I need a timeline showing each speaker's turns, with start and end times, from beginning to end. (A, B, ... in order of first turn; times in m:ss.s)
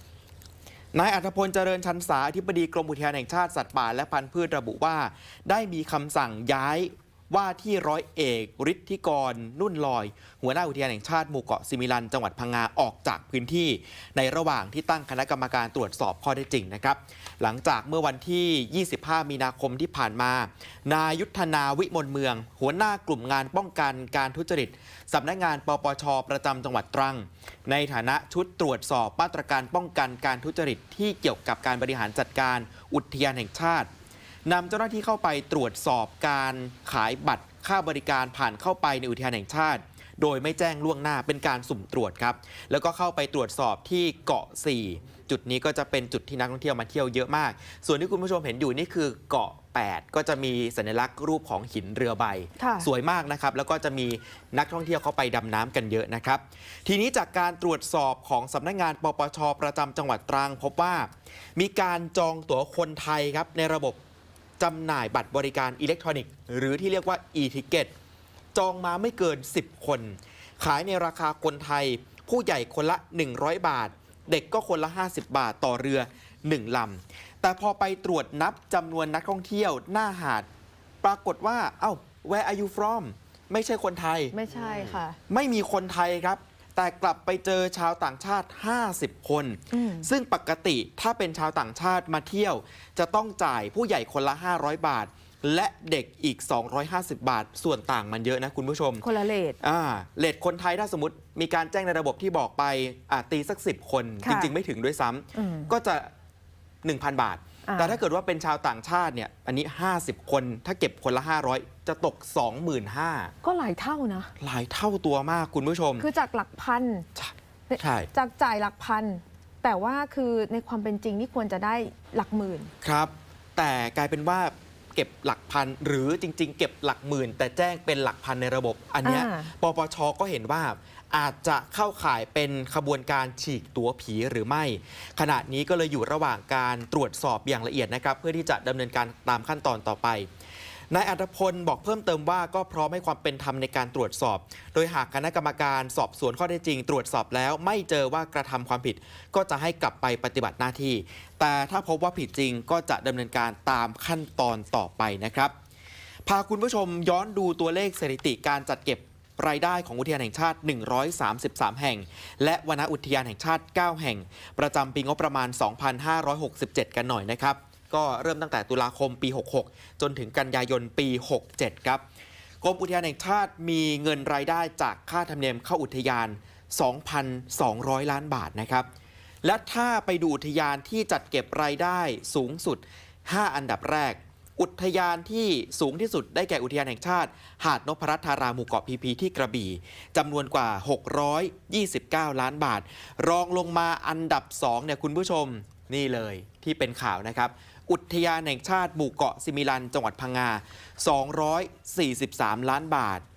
0:00.9-0:33.9 A
0:34.4-1:04.0 A
0:52.6-0:52.9 B
1:04.6-1:07.9 A
1:08.5-1:20.5 A
1:21.0-1:39.1 A
1:24.3-1:25.2 B
1:29.7-1:30.1 B
1:39.0-1:39.6 B
1:39.6-1:46.1 A
1:44.2-1:44.5 B
1:45.3-1:45.7 B
1:46.8-1:53.3 A
1:47.7-1:48.0 B
1:53.4-1:54.3 B
1:54.4-1:56.1 A
1:56.0-1:57.1 B
1:57.2-1:58.1 A
1:57.7-2:02.7 B
2:02.8-2:20.3 A
2:09.0-2:09.5 B
2:20.9-2:35.5 A
2:36.2-2:52.0 A
2:52.6-2:58.9 A
2:59.4-3:23.2 A